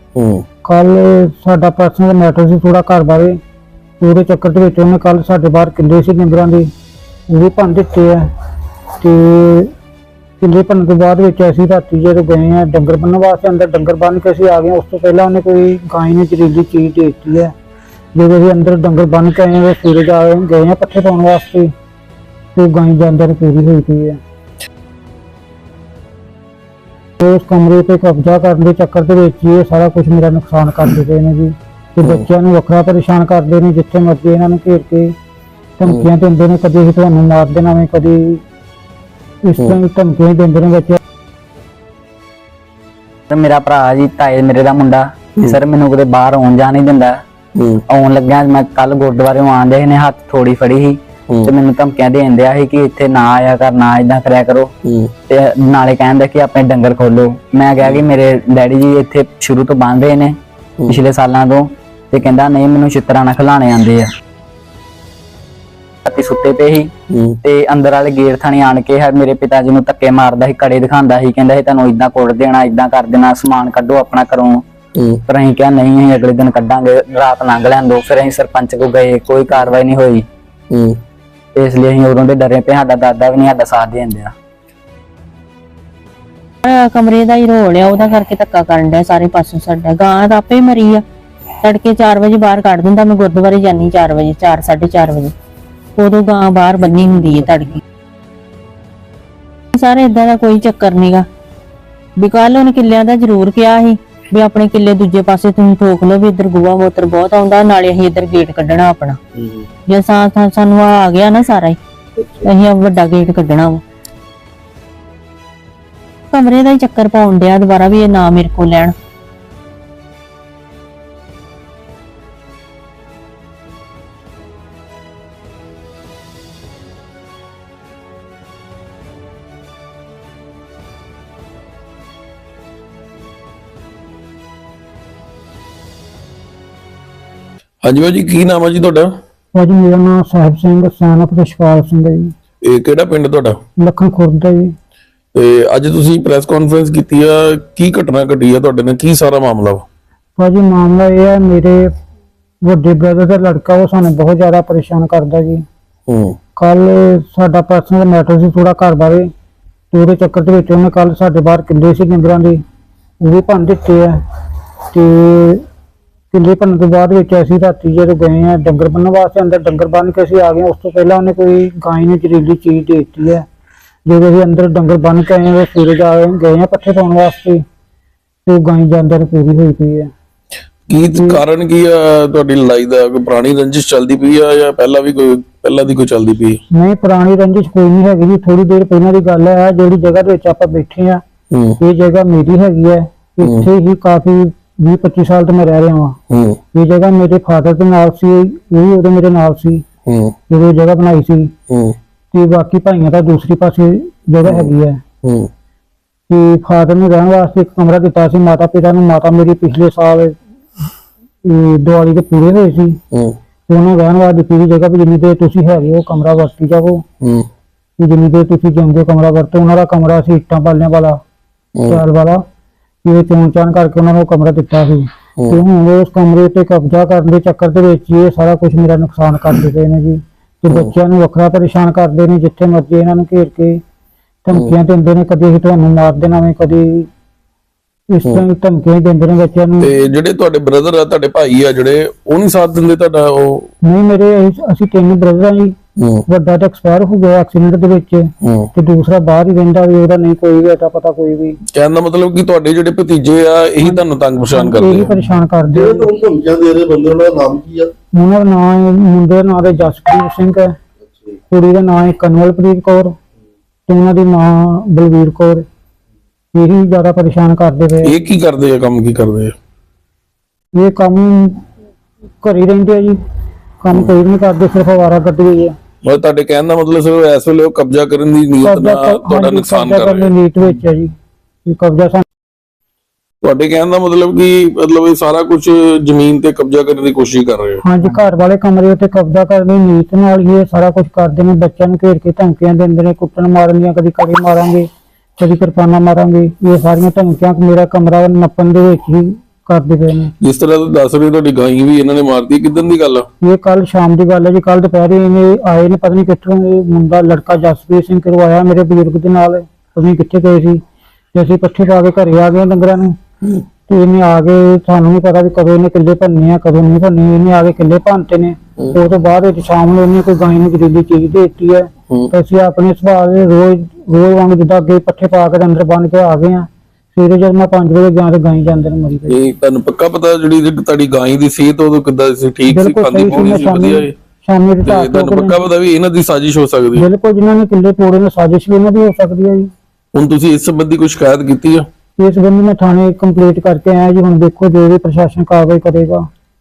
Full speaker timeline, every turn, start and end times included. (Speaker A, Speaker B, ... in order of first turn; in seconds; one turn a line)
Speaker A: 0.2-0.5
Speaker B: 0.7-3.4
Speaker B: 4.0-6.7
Speaker B: 7.3-8.3
Speaker B: 9.0-9.7
Speaker B: 10.4-17.5
Speaker B: 18.1-21.7
Speaker B: 22.6-24.2
Speaker B: 27.2-35.1
Speaker A: 32.0-32.3
Speaker B: 35.8-38.4
Speaker B: 39.5-41.0
Speaker C: 43.3-47.2
Speaker A: 47.6-47.8
Speaker C: 47.9-54.7
Speaker A: 54.9-55.1
Speaker C: 55.3-60.4
Speaker C: 60.9-64.1
Speaker C: 66.0-66.9
Speaker A: 67.1-67.4
Speaker C: 67.4-74.6
Speaker A: 75.0-75.2
Speaker C: 75.3-80.2
Speaker A: 80.7-81.0
Speaker C: 81.5-84.3
Speaker D: 86.6-91.0
Speaker D: 91.6-95.3
Speaker D: 96.0-97.8
Speaker D: 99.7-101.3
Speaker D: 102.2-109.2
Speaker E: 109.3-109.7
Speaker D: 109.9-111.8
Speaker E: 112.2-112.5
Speaker D: 112.4-113.8
Speaker D: 116.3-118.9
Speaker A: 137.8-139.1
Speaker B: 139.5-142.3
Speaker A: 142.6-143.6
Speaker B: 143.8-144.7
Speaker A: 145.3-149.8
Speaker B: 150.4-151.9
Speaker B: 152.6-155.7
Speaker A: 156.1-156.4
Speaker B: 156.6-159.3
Speaker B: 159.9-162.6
Speaker B: 163.2-164.2
Speaker B: 164.9-165.6
Speaker B: 166.3-173.4
Speaker B: 174.1-177.6
Speaker B: 178.5-180.1
Speaker A: 180.9-186.6
Speaker B: 181.1-181.4
Speaker B: 186.7-191.2
Speaker A: 191.5-191.8
Speaker B: 191.8-196.2
Speaker A: 193.4-193.7
Speaker A: 196.3-196.6
Speaker B: 196.7-199.8
Speaker A: 200.1-200.4
Speaker B: 200.5-201.5
Speaker A: 201.7-202.0
Speaker B: 202.3-205.0
Speaker A: 204.4-205.5
Speaker B: 206.3-210.4
Speaker B: 211.4-213.0
Speaker A: 213.1-213.4
Speaker B: 213.7-217.0
Speaker A: 217.2-217.5
Speaker B: 218.0-221.2
Speaker A: 221.8-222.0
Speaker B: 221.9-222.4
Speaker B: 223.1-233.8
Speaker B: 234.4-237.1
Speaker B: 238.1-239.9
Speaker A: 239.8-243.7
Speaker B: 243.8-245.8
Speaker A: 246.0-246.2
Speaker B: 246.3-251.6
Speaker A: 248.4-248.7
Speaker A: 251.7-255.1
Speaker B: 254.5-256.1
Speaker E: 255.7-257.9
Speaker B: 258.2-260.8
Speaker B: 261.5-263.2
Speaker B: 263.9-265.6
Speaker B: 266.6-268.1
Speaker A: 268.0-269.5
Speaker B: 270.8-271.6
Speaker B: 272.4-273.2
Speaker B: 273.8-275.8
Speaker A: 273.9-274.2
Speaker A: 276.0-280.3
Speaker B: 278.6-281.1
Speaker B: 281.7-282.2
Speaker A: 283.4-287.8
Speaker B: 287.8-300.3
Speaker A: 300.4-303.3
Speaker B: 303.4-310.8
Speaker B: 311.3-313.2
Speaker B: 313.9-329.4
Speaker A: 329.3-334.1
Speaker B: 332.7-335.6
Speaker A: 334.9-337.1
Speaker B: 337.0-339.7
Speaker A: 340.1-341.9
Speaker B: 342.2-346.3